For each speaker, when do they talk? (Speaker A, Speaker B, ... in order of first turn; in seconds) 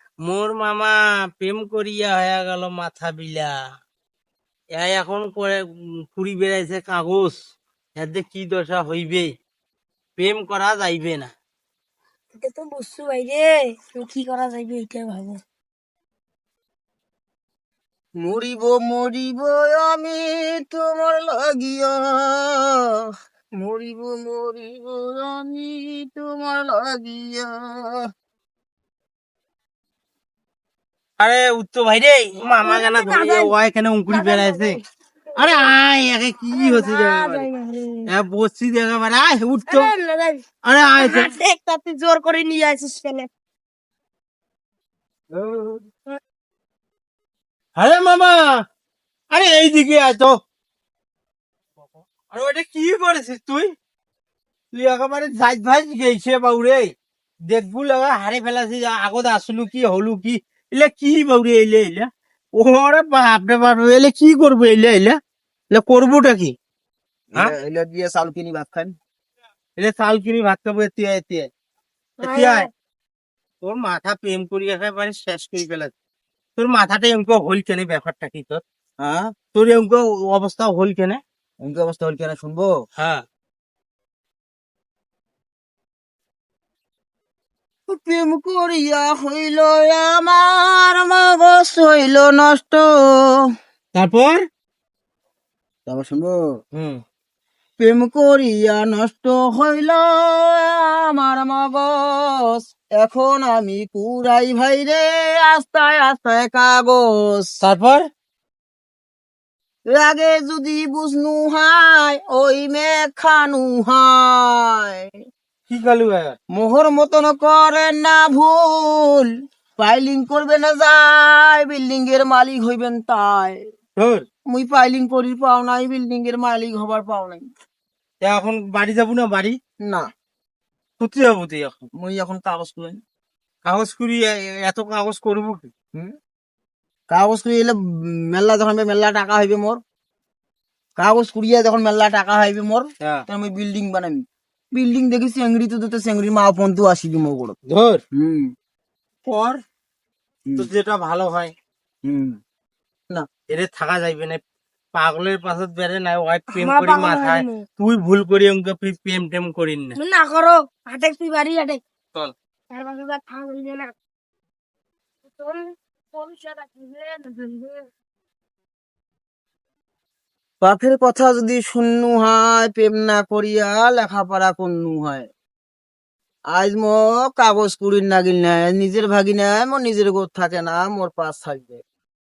Speaker A: 0.2-3.5, 4.8-5.6, 6.1-7.4, 8.0-9.3, 10.2-11.3, 31.2-34.8, 35.4-37.5, 38.1-39.9, 40.6-41.3, 45.3-45.8, 47.8-48.4, 49.3-50.3, 51.8-53.7, 54.7-56.9, 57.5-65.2, 65.7-66.5, 69.8-71.5, 72.2-72.7, 73.6-75.9, 76.6-78.6, 79.5-81.2, 83.0-83.2, 93.9-94.4, 96.7-97.0, 107.6-108.0, 115.7-116.3, 124.0-124.2, 128.2-129.6, 131.0-131.8, 133.6-135.7, 147.7-148.0, 149.2-149.6, 150.6-151.5, 153.5-154.4, 154.9-160.0
Speaker B: 12.4-15.4, 32.6-33.5, 34.1-34.8, 35.3-35.7, 36.5-38.1, 39.7-40.4, 41.0-43.3, 72.2-72.7, 156.5-157.6, 160.0-161.8, 162.7-163.9, 165.3-167.9
Speaker C: 18.2-22.8, 23.6-28.0, 67.3-68.9, 79.0-79.3, 81.6-82.7, 87.9-93.4, 95.9-96.5, 97.8-107.5, 109.9-115.1, 116.5-123.6, 124.5-127.4, 129.8-130.1, 131.9-133.0, 137.1-139.8, 141.0-144.2, 144.7-147.6, 148.1-148.5, 152.0-152.4, 170.6-175.3, 176.5-181.8